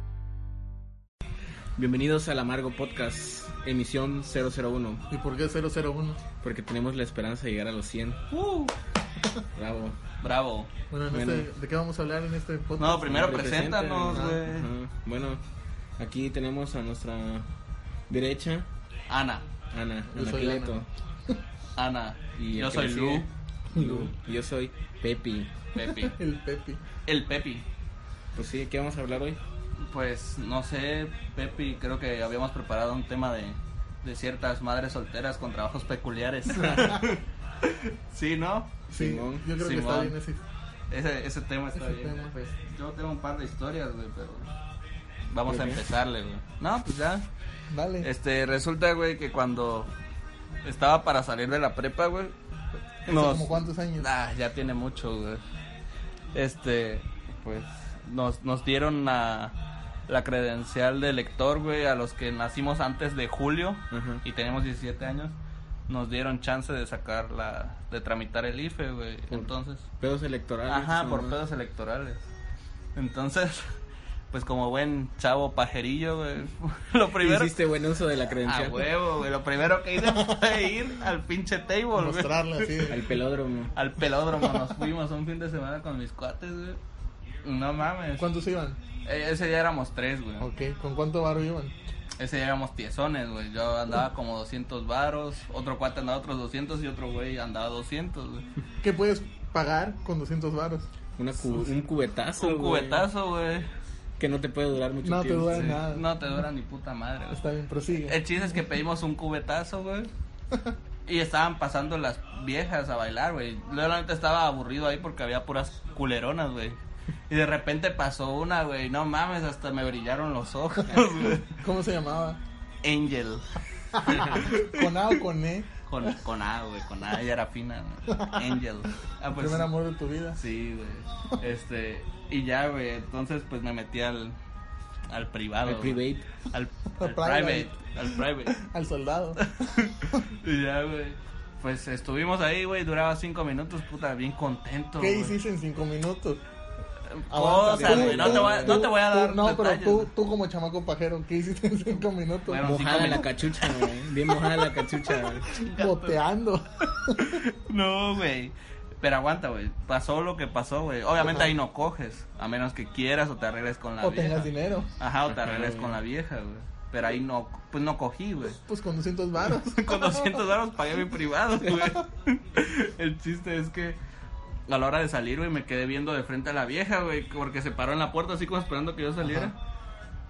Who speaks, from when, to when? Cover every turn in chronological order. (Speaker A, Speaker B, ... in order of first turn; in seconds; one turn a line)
Speaker A: 1.8-5.0
Speaker B: 5.1-6.2
Speaker A: 6.4-8.2
Speaker C: 8.3-8.7
Speaker A: 9.6-10.0
Speaker C: 10.2-10.7
Speaker B: 10.9-13.5
Speaker A: 11.1-11.5
Speaker C: 12.8-14.7
Speaker A: 13.1-15.4
Speaker B: 14.1-14.4
Speaker A: 16.0-17.5
Speaker A: 18.1-18.7
Speaker C: 19.1-19.4
Speaker A: 19.7-20.9
Speaker B: 20.1-20.8
Speaker C: 21.8-23.3
Speaker A: 22.4-25.5
Speaker B: 23.7-24.1
Speaker C: 25.7-26.1
Speaker B: 25.8-26.8
Speaker C: 27.1-27.7
Speaker A: 28.4-29.4
Speaker C: 29.8-38.7
Speaker B: 36.5-37.1
Speaker A: 38.9-39.5
Speaker B: 39.0-40.4
Speaker C: 39.6-40.2
Speaker C: 40.9-44.5
Speaker B: 41.8-42.5
Speaker C: 45.3-47.3
Speaker A: 45.5-45.8
Speaker B: 47.7-48.1
Speaker C: 48.0-49.9
Speaker C: 50.6-52.3
Speaker B: 53.1-54.1
Speaker C: 53.1-55.4
Speaker C: 56.3-59.5
Speaker C: 60.1-65.3
Speaker A: 63.9-64.2
Speaker C: 65.9-69.8
Speaker A: 69.3-71.4
Speaker C: 70.7-72.3
Speaker C: 73.0-73.7
Speaker C: 74.3-77.6
Speaker A: 77.2-78.9
Speaker C: 78.5-82.9
Speaker B: 81.9-83.0
Speaker A: 82.9-83.7
Speaker C: 83.8-86.8
Speaker C: 87.4-88.3
Speaker B: 88.2-88.8
Speaker C: 89.0-90.5
Speaker B: 90.4-91.7
Speaker C: 92.2-98.5
Speaker B: 98.8-100.9
Speaker A: 101.2-103.1
Speaker C: 102.4-103.7
Speaker A: 104.2-105.8
Speaker B: 105.0-106.1
Speaker C: 105.5-107.4
Speaker B: 107.3-108.2
Speaker C: 108.0-110.1
Speaker C: 111.1-116.8
Speaker C: 117.3-121.5
Speaker B: 121.4-122.4
Speaker C: 122.8-123.4
Speaker C: 124.0-124.9
Speaker B: 124.0-126.1
Speaker C: 125.9-129.7
Speaker B: 129.4-130.4
Speaker C: 130.4-134.4
Speaker C: 135.1-136.0
Speaker A: 135.7-136.2
Speaker C: 136.5-138.6
Speaker B: 137.0-137.8
Speaker B: 138.6-139.4
Speaker C: 139.6-145.3
Speaker B: 145.0-146.4
Speaker C: 147.1-150.1
Speaker B: 147.3-152.7
Speaker A: 147.8-148.8
Speaker C: 152.5-153.3
Speaker A: 152.6-155.5
Speaker C: 155.6-156.1
Speaker B: 155.7-157.4
Speaker C: 157.4-168.6
Speaker B: 164.0-164.9
Speaker A: 165.3-165.9
Speaker B: 168.5-170.3
Speaker C: 169.7-174.0
Speaker C: 174.7-179.6